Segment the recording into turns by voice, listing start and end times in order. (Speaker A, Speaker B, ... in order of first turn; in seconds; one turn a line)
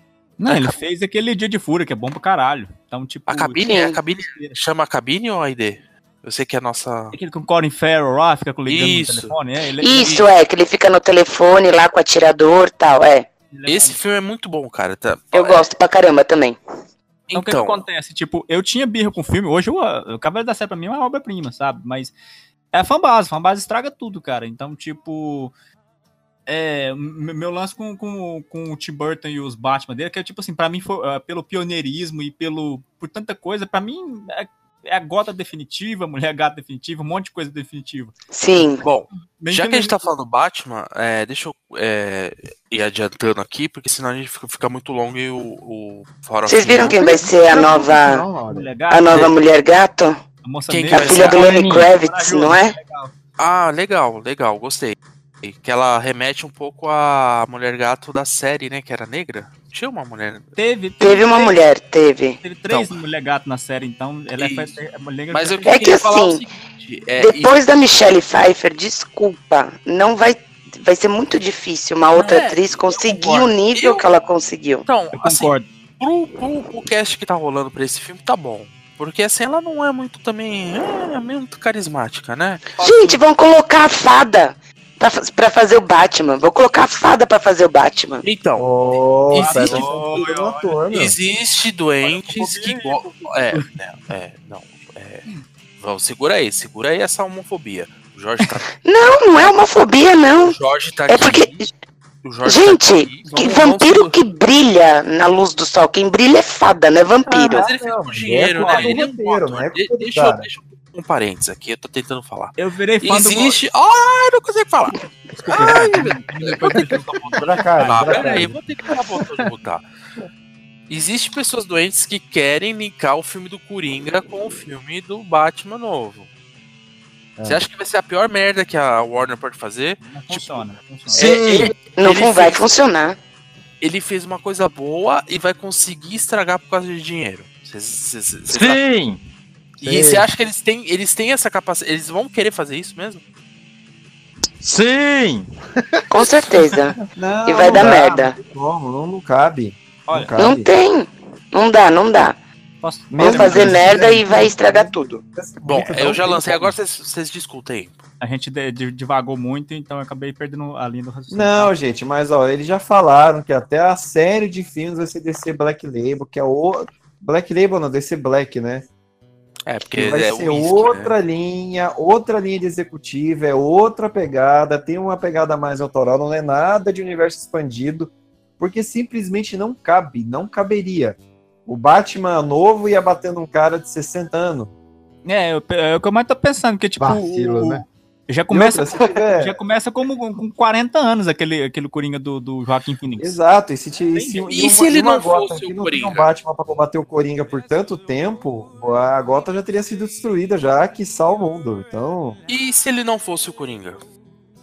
Speaker A: 0.4-3.7
Speaker B: 0.5-0.7
Speaker B: 3.3-7.1
Speaker C: 3.6-4.0
Speaker A: 4.2-4.6
Speaker A: 7.1-10.1
Speaker B: 8.7-9.3
Speaker C: 9.8-13.3
Speaker B: 9.9-10.3
Speaker A: 13.5-14.0
Speaker B: 13.7-15.7
Speaker C: 15.3-16.6
Speaker B: 17.3-17.8
Speaker A: 17.3-22.1
Speaker A: 22.7-25.5
Speaker A: 26.5-38.1
Speaker C: 38.3-38.8
Speaker B: 38.8-47.0
Speaker A: 39.4-40.0
Speaker C: 46.5-48.2
Speaker D: 46.8-48.7
Speaker A: 48.5-49.3
Speaker C: 48.9-50.2
Speaker A: 50.4-53.1
Speaker B: 50.7-51.3
Speaker C: 50.9-52.7
Speaker E: 51.1-51.9
Speaker B: 53.4-60.5
Speaker A: 60.5-61.6
Speaker C: 61.0-62.4
Speaker A: 62.4-65.9
Speaker B: 62.7-62.9
Speaker B: 64.3-64.7
Speaker B: 65.3-67.5
Speaker C: 65.7-66.4
Speaker C: 67.2-74.8
Speaker B: 72.1-74.0
Speaker B: 74.9-82.7
Speaker A: 75.1-75.7
Speaker A: 82.8-83.2
Speaker C: 82.8-88.2
Speaker B: 88.2-88.7
Speaker F: 88.6-91.2
Speaker B: 89.3-89.9
Speaker A: 89.3-90.7
Speaker B: 90.9-95.2
Speaker A: 92.0-93.7
Speaker B: 95.8-98.7
Speaker C: 98.8-100.6
Speaker B: 100.4-101.6
Speaker C: 101.1-101.6
Speaker B: 102.2-104.1
Speaker C: 102.4-107.6
Speaker F: 107.2-110.5
Speaker B: 107.5-115.0
Speaker A: 108.6-109.0
Speaker A: 112.6-113.6
Speaker A: 115.3-118.5
Speaker B: 115.5-119.8
Speaker D: 116.7-117.0
Speaker F: 117.3-118.6
Speaker D: 119.1-119.5
Speaker B: 120.9-126.3
Speaker B: 127.5-132.6
Speaker A: 130.0-131.3
Speaker E: 131.1-131.8
Speaker C: 131.2-133.2
Speaker B: 133.8-138.8
Speaker E: 138.5-139.2
Speaker B: 139.8-143.2
Speaker F: 139.8-140.2
Speaker E: 144.6-145.4
Speaker C: 146.1-148.3
Speaker F: 147.1-150.7
Speaker A: 150.1-150.3
Speaker C: 150.4-152.4
Speaker A: 152.8-154.3
Speaker F: 153.1-156.7
Speaker C: 153.2-155.2
Speaker B: 155.7-158.0
Speaker A: 158.2-161.7
Speaker F: 161.3-168.9
Speaker B: 169.7-171.1
Speaker F: 169.9-184.7
Speaker A: 185.2-193.4
Speaker D: 187.0-187.8
Speaker F: 188.5-189.6
Speaker F: 193.2-202.4
Speaker A: 194.1-194.5
Speaker B: 194.5-196.3
Speaker B: 202.5-204.0